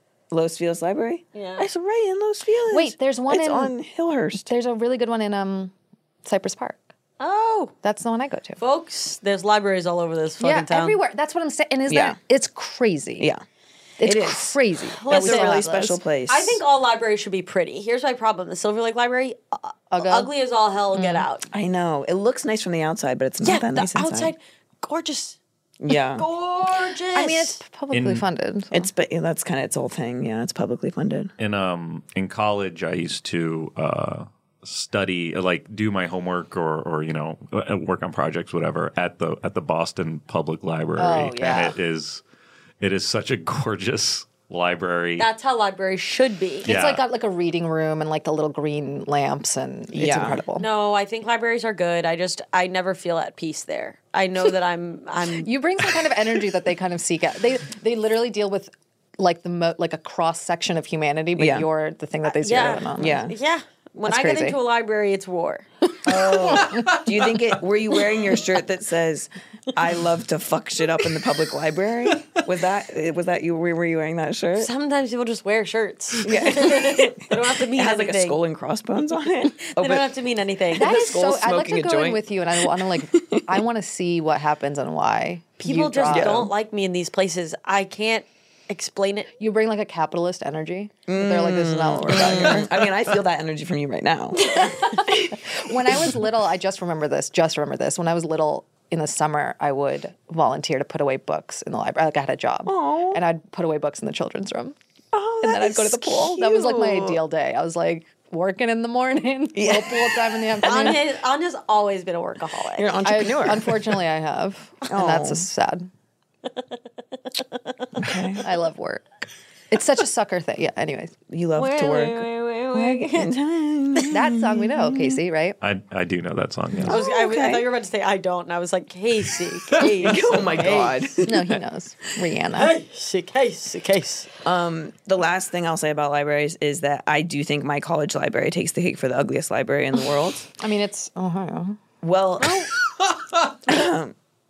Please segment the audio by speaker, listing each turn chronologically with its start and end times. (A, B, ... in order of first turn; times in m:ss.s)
0:00.3-0:04.5 A
0:01.3-0:01.7 B
0:02.7-0:03.7 C
0:04.4-0:05.7 C
0:06.2-0:06.8 C
0:07.2-0:07.7 B
0:07.8-0:08.6 C
0:08.6-0:11.0 B
0:10.4-0:13.3 C
0:11.9-0:12.2 A
0:14.0-0:16.0 C
0:14.0-0:16.6 A
0:14.9-0:21.5 B
0:19.9-0:20.3 C
0:20.9-0:21.2 C
0:21.5-0:24.3 A
0:23.4-0:25.4 B
0:25.8-0:26.2 A
0:25.9-0:27.6 B
0:27.1-0:28.9 C
0:27.9-0:28.2 D
0:28.7-0:31.3 A
0:31.4-0:42.2 D
0:41.0-0:41.8 C
0:42.8-0:45.3 D
0:45.2-0:46.7 B
0:46.6-0:50.7 C
0:46.6-0:47.0 D
0:49.9-0:50.4 A
0:50.6-0:55.5 B
0:55.4-1:03.3 C
1:01.4-1:01.7 A
1:02.3-1:06.9 B
1:03.0-1:03.4 A
1:04.0-1:04.6 C
1:06.1-1:14.7 A
1:14.6-1:18.4 B
1:16.2-1:20.1 A
1:19.6-1:20.9 B
1:20.7-1:23.5 A
1:20.8-1:26.4 C
1:25.6-1:29.3 B
1:26.1-1:26.5 A
1:29.4-1:32.8 C
1:31.1-1:35.4 A
1:34.6-1:44.8 C
1:42.6-1:43.2 A
1:45.1-1:47.2 A
1:45.4-1:51.0 C
1:49.6-1:51.0 A
1:50.6-1:53.0 B
1:52.8-1:54.0 A
1:53.0-1:55.9 C
1:54.9-1:55.4 A
1:57.4-1:57.9 B
1:58.0-1:58.4 A
1:58.4-1:59.0 C
1:59.7-2:01.1 C
2:01.3-2:05.2 A
2:01.6-2:03.3 B
2:04.1-2:05.6 C
2:05.6-2:07.0 D
2:06.8-2:07.7 A
2:06.9-2:11.1 B
2:10.0-2:11.6 A
2:11.2-2:12.7 C
2:12.6-2:14.3 B
2:14.4-2:20.5 A
2:20.6-2:21.8 C
2:22.0-2:22.7 A
2:23.6-2:24.1 A